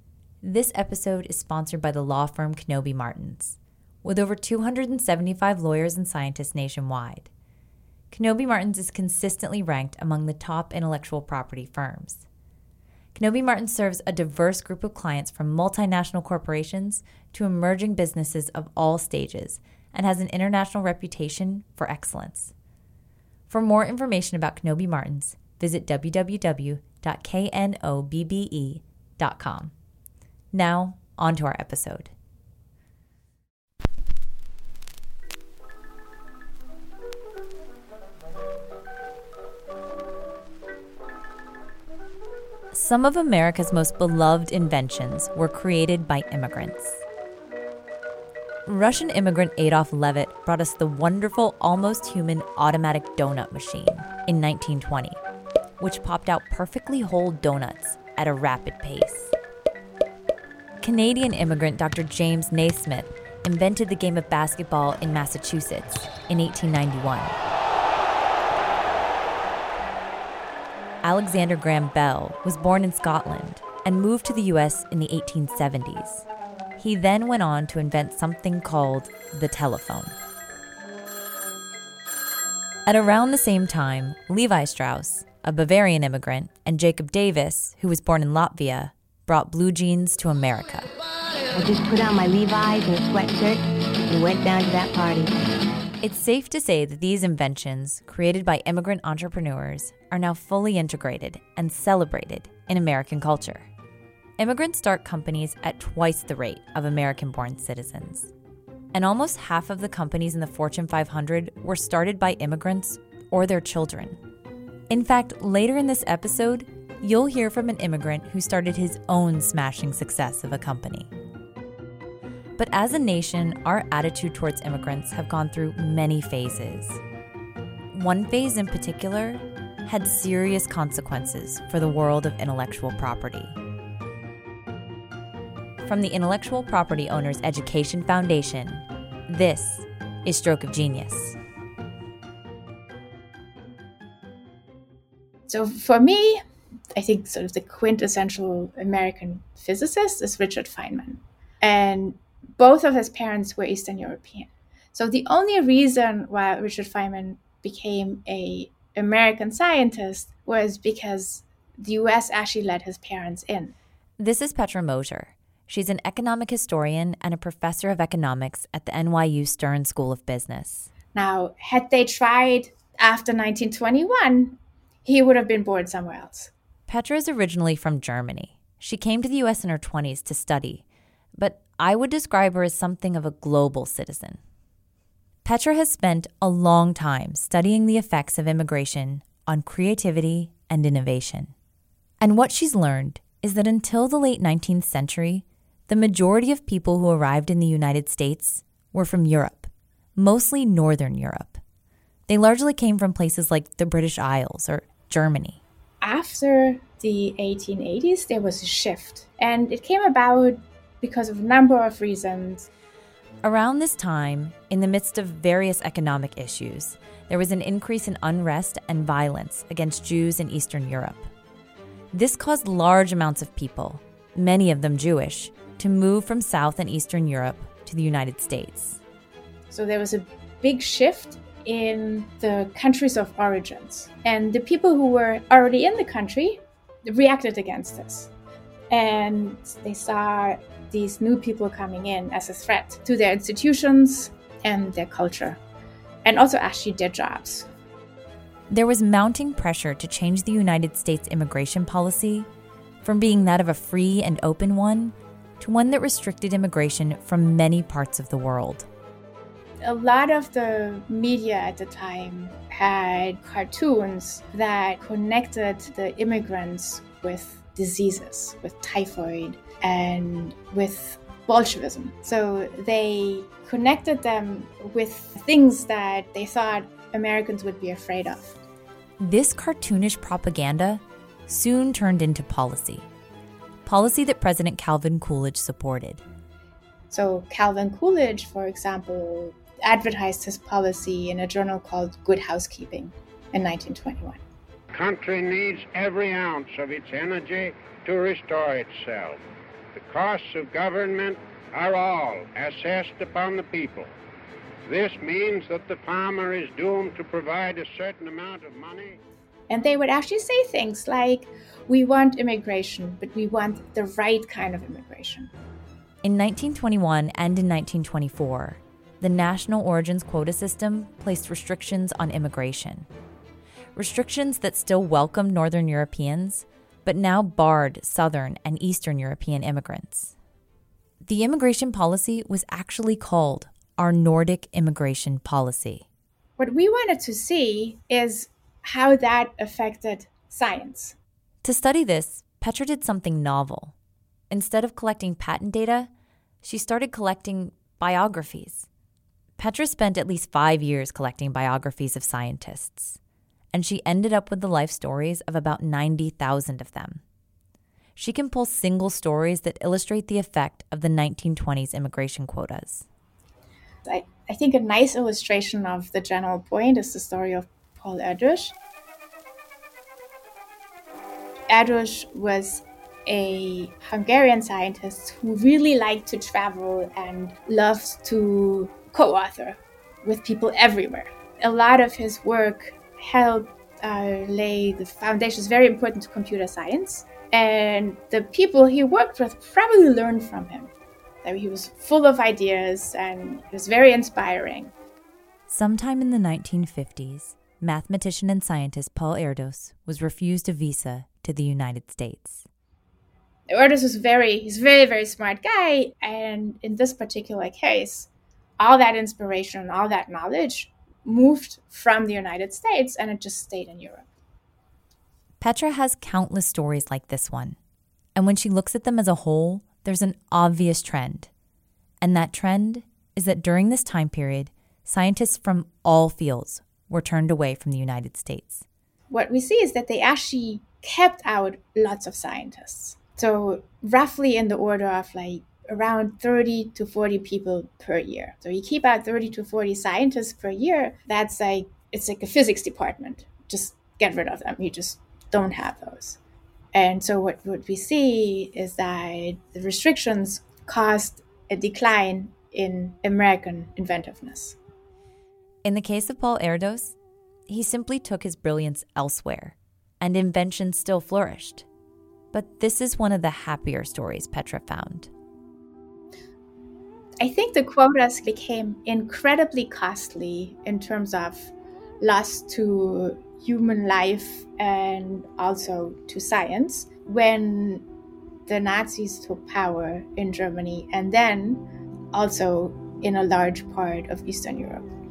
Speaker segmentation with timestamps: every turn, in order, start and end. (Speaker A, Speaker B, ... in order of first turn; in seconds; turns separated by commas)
Speaker A: 0.4-7.3, Speaker A: 8.1-12.2, Speaker A: 13.2-22.5, Speaker A: 23.5-29.7, Speaker A: 30.5-32.1, Speaker A: 42.7-47.0, Speaker A: 48.7-55.2, Speaker A: 55.8-59.3, Speaker A: 60.8-67.4, Speaker A: 71.0-76.2, Speaker A: 76.8-80.2, Speaker A: 82.9-90.9, Speaker B: 91.5-95.3, Speaker A: 96.0-103.7, Speaker A: 104.4-108.3, Speaker A: 108.9-114.2, Speaker A: 114.9-121.1, Speaker A: 122.6-127.0, Speaker A: 127.9-133.6, Speaker A: 135.8-141.4, Speaker C: 145.5-146.4, Speaker C: 146.9-163.7, Speaker A: 164.2-170.9, Speaker C: 171.1-176.5, Speaker A: 176.9-180.8, Speaker A: 181.4-184.4, Speaker A: 185.4-191.5, Speaker A: 192.2-201.6, Speaker A: 202.3-205.6, Speaker C: 206.0-212.7, Speaker A: 213.4-221.3, Speaker A: 222.1-229.0, Speaker C: 229.7-238.3, Speaker C: 238.9-245.6, Speaker C: 246.2-247.7, Speaker A: 248.7-252.5, Speaker A: 253.0-258.9, Speaker C: 259.8-278.6, Speaker A: 279.2-283.1, Speaker A: 283.9-286.2, Speaker C: 287.1-294.4, Speaker D: 294.9-299.4, Speaker D: 299.9-304.1, Speaker D: 304.9-309.2, Speaker C: 309.7-315.5, Speaker A: 316.2-323.1, Speaker A: 323.9-330.3, Speaker A: 331.2-336.1, Speaker C: 336.6-341.1, Speaker A: 341.6-343.9, Speaker A: 344.5-346.1, Speaker A: 346.6-348.9, Speaker A: 349.6-353.2, Speaker A: 353.7-357.2, Speaker A: 358.2-363.1, Speaker C: 364.1-368.8, Speaker C: 371.7-390.9, Speaker C: 391.4-394.9, Speaker A: 395.7-402.7, Speaker C: 403.7-414.3, Speaker A: 415.6-417.8, Speaker A: 418.4-421.5, Speaker A: 422.2-428.9, Speaker C: 429.3-446.4, Speaker C: 446.9-454.8, Speaker A: 455.9-457.2, Speaker A: 457.7-461.9, Speaker A: 462.5-465.3, Speaker C: 467.4-478.1, Speaker C: 478.7-485.1